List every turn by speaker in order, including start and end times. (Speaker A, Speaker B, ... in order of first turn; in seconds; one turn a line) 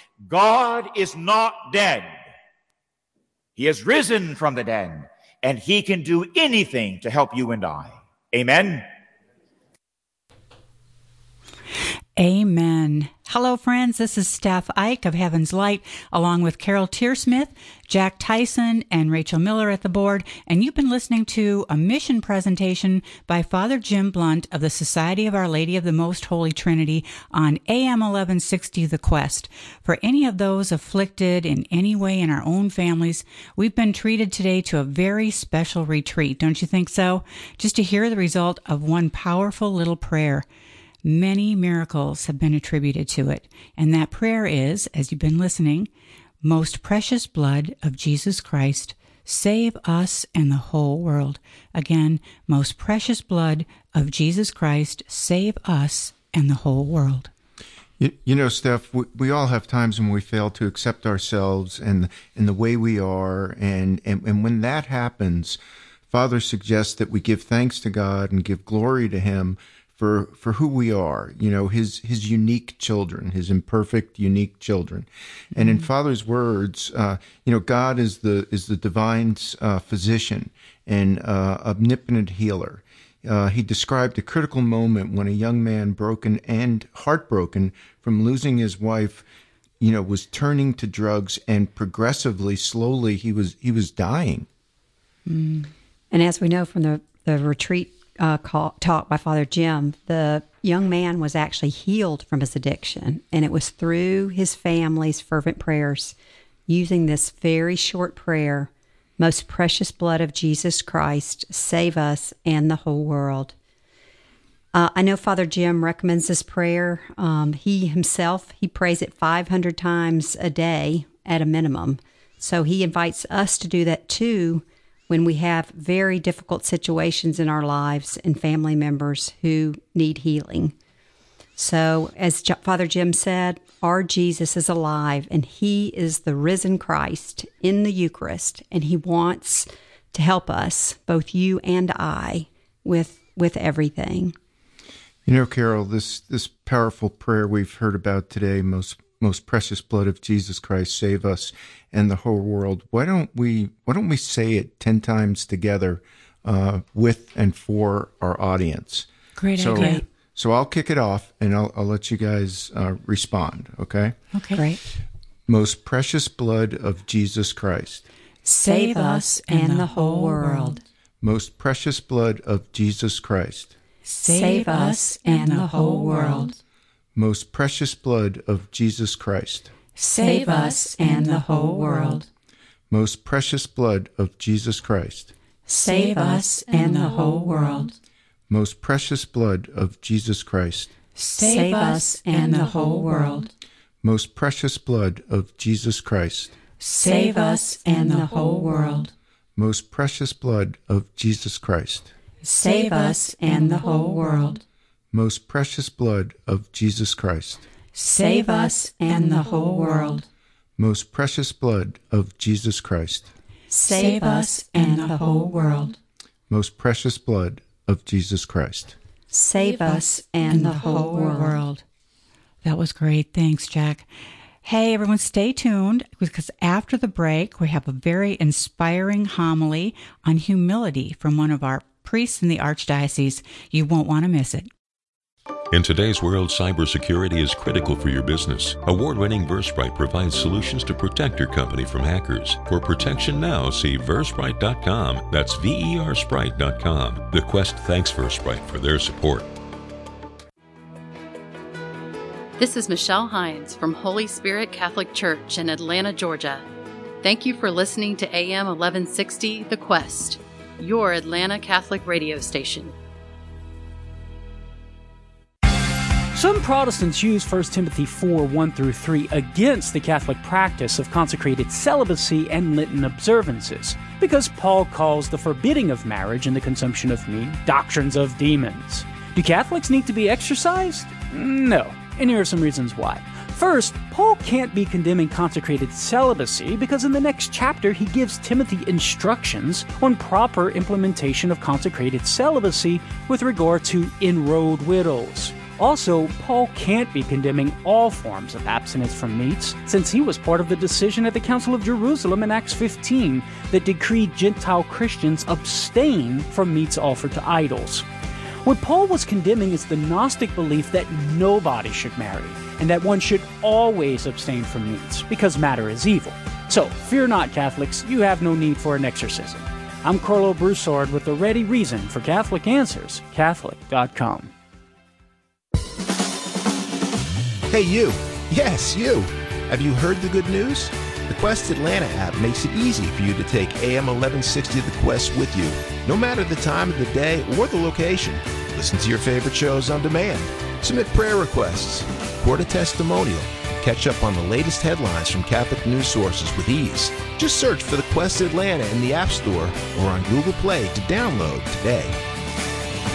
Speaker A: 0.3-2.1
Speaker A: 3.6-8.9
Speaker B: 12.2-40.5
Speaker B: 41.0-45.9
Speaker B: 46.4-57.3
Speaker C: 58.0-89.2
Speaker C: 89.8-94.5
Speaker D: 95.3-106.2
Speaker D: 106.7-113.5
Speaker D: 114.7-130.7
Speaker D: 131.6-144.3
Speaker C: 145.3-164.2
Speaker B: 159.4-160.0
Speaker B: 164.3-164.8
Speaker C: 165.5-168.1
Speaker B: 168.4-170.8
Speaker D: 168.7-170.8
Speaker C: 171.2-173.8
Speaker B: 174.1-176.6
Speaker D: 174.2-176.5
Speaker C: 177.2-179.7
Speaker B: 180.0-182.2
Speaker D: 180.5-181.6
Speaker C: 182.9-185.3
Speaker B: 185.7-187.9
Speaker D: 185.9-187.9
Speaker C: 188.5-190.9
Speaker B: 191.2-193.4
Speaker D: 191.3-193.5
Speaker C: 194.0-196.5
Speaker B: 196.8-199.1
Speaker D: 197.0-199.1
Speaker C: 199.6-202.1
Speaker B: 202.5-204.6
Speaker D: 202.5-204.6
Speaker C: 205.1-207.6
Speaker B: 208.0-210.2
Speaker D: 209.0-210.2
Speaker C: 210.8-213.3
Speaker B: 213.7-216.0
Speaker D: 213.7-214.8
Speaker C: 216.5-218.9
Speaker D: 219.3-221.6
Speaker B: 219.5-221.8
Speaker B: 222.6-224.1
Speaker B: 224.6-234.7
Speaker E: 235.7-249.5
Speaker F: 252.6-256.6
Speaker F: 257.2-262.9
Speaker G: 266.3-308.1
Speaker G: 308.6-324.5
Speaker H: 327.7-352.2